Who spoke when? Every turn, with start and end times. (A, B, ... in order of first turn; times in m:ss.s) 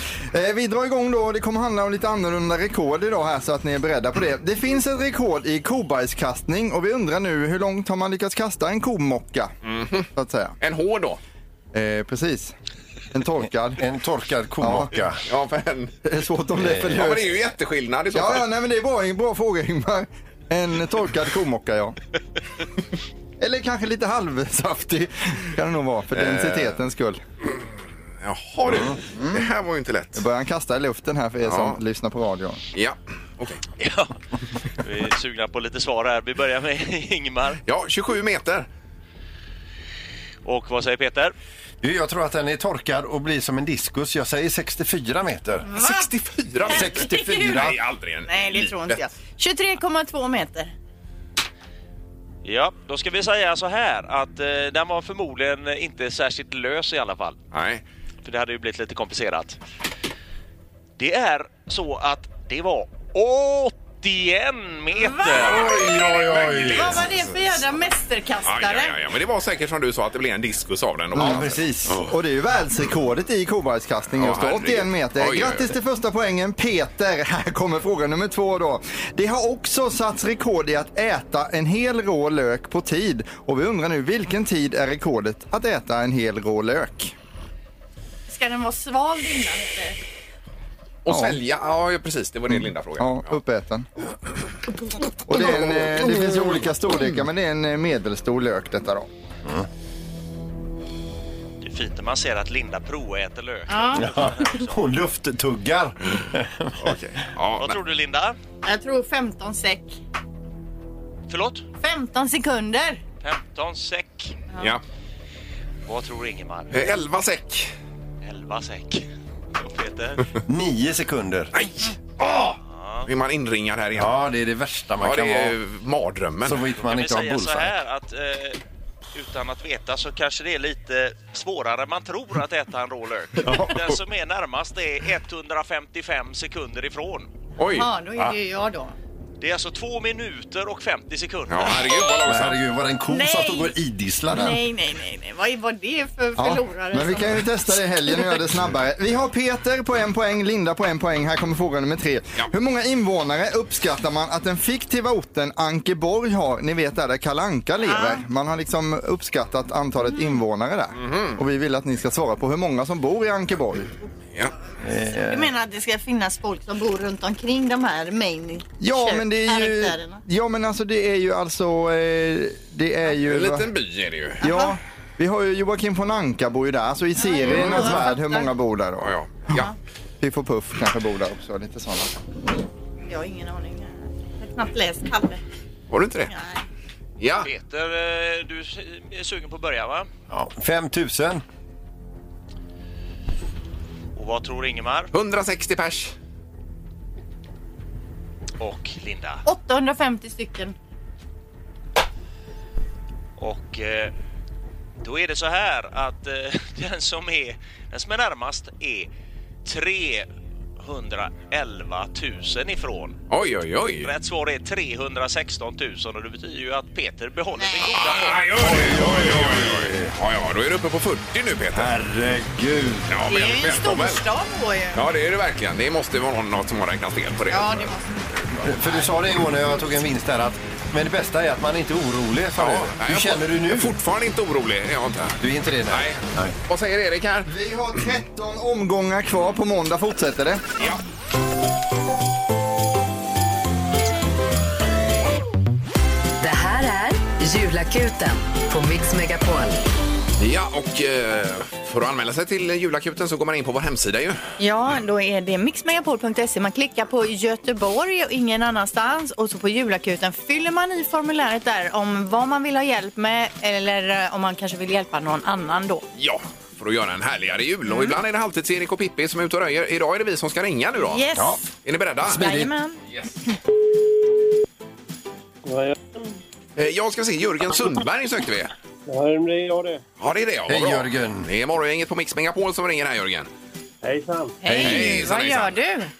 0:00.3-0:09.6 A
0:09.6-0:10.1 B
0:10.2-0:10.6 A
0:10.6-0:11.2 B
0:11.7-0:12.5 A
0:13.1-0:13.8 A
0:13.8-0:15.2 C
0:14.6-0:14.9 A
0:15.3-0:16.0 B
0:16.0-0:17.4 A
0:16.6-0:17.0 C
0:16.8-0:18.5 B
0:18.1-0:22.0 A
0:23.4-0:27.2 A
0:26.1-0:26.8 B
0:28.2-0:30.2 B
0:28.7-0:29.0 C
0:30.2-0:32.6 A
0:31.4-0:31.8 B
0:32.7-0:33.7 B
0:33.8-0:34.1 D
0:34.8-0:37.6 D
0:37.7-0:38.7 B
0:40.4-0:41.3 D
0:41.8-0:45.7 C
0:45.7-0:46.0 E
0:45.8-0:49.0 B
0:46.6-0:47.8 C
0:46.7-0:47.7 E
0:48.3-0:50.7 E
0:52.4-0:57.4 D
0:57.5-0:57.8 B
0:58.2-0:59.6 D
1:01.0-1:05.7 D
1:05.0-1:09.0 E
1:05.4-1:07.0 C
1:05.6-1:07.2 B
1:08.4-1:12.2 B
1:11.1-1:12.0 C
1:11.1-1:27.1 A
1:14.2-1:15.7 B
1:28.3-1:30.0 E
1:31.0-1:33.4 B
1:31.1-1:31.4 A
1:32.5-1:33.9 A
1:35.3-1:39.1 A
1:41.6-1:44.7 D
1:43.7-1:44.1 E
1:44.0-1:47.0 C
1:46.8-1:47.8 B
1:47.6-1:48.4 D
1:48.6-1:50.0 E
1:51.3-1:51.6 D
1:51.8-1:53.0 E
1:53.2-1:54.4 D
1:55.9-1:56.8 D
1:56.7-1:57.7 B
1:58.2-1:59.0 D
1:59.6-2:00.3 D
2:00.5-2:01.5 C
2:01.5-2:04.2 B
2:02.7-2:03.1 D
2:04.0-2:05.6 C
2:05.0-2:06.6 B
2:06.4-2:07.8 C
2:06.8-2:08.6 D
2:09.1-2:17.3 D
2:13.4-2:13.9 C
2:17.6-2:17.9 B
2:17.8-2:19.0 E
2:19.4-2:21.8 D
2:21.5-2:22.6 B
2:22.2-2:24.6 C
2:23.1-2:23.7 E
2:24.3-2:28.3 E
2:26.4-2:43.9 A
2:37.8-2:38.2 E
2:41.0-2:41.4 B
2:44.8-2:45.5 C
2:45.2-2:50.2 E
2:48.8-2:53.7 A
2:53.2-2:54.4 B
2:54.4-2:59.1 A
2:54.4-2:54.8 E
2:57.2-2:58.5 E
2:57.5-2:58.0 B
2:59.0-2:59.7 B
3:00.2-3:02.2 A
3:03.1-3:05.4 E
3:05.9-3:06.3 B
3:06.3-3:06.6 E
3:07.2-3:07.5 B
3:07.4-3:10.1 D
3:10.3-3:11.4 C
3:14.2-3:15.1 D
3:15.1-3:16.1 B
3:18.6-3:19.4 D
3:19.4-3:20.8 E
3:23.4-3:24.1 D
3:25.0-3:29.1 D
3:29.6-3:33.2 D
3:33.3-3:34.1 B
3:34.0-3:38.5 D
3:37.6-3:38.2 E
3:38.0-3:41.9 B
3:38.6-3:40.1 C
3:41.7-3:43.2 C
3:43.1-3:44.2 B
3:43.3-3:45.0 E
3:44.9-3:47.9 B
3:47.5-3:48.2 E
3:48.6-3:54.0 C
3:52.6-3:57.5 B
3:55.4-3:56.6 C
3:57.5-4:00.6 A
4:06.4-4:09.8 F
4:10.4-4:14.4 B
4:14.6-4:26.0 E
4:26.2-4:32.4 B
4:27.9-4:28.2 E
4:31.0-4:31.6 E
4:32.2-4:32.7 C
4:32.4-4:33.0 E
4:35.6-4:36.3 G
4:36.8-4:38.7 B
4:39.1-4:40.0 G
4:40.2-4:43.5 B
4:40.7-4:41.5 C
4:44.0-4:44.6 G
4:44.6-4:46.1 E
4:44.7-4:45.2 C
4:44.8-4:45.8 B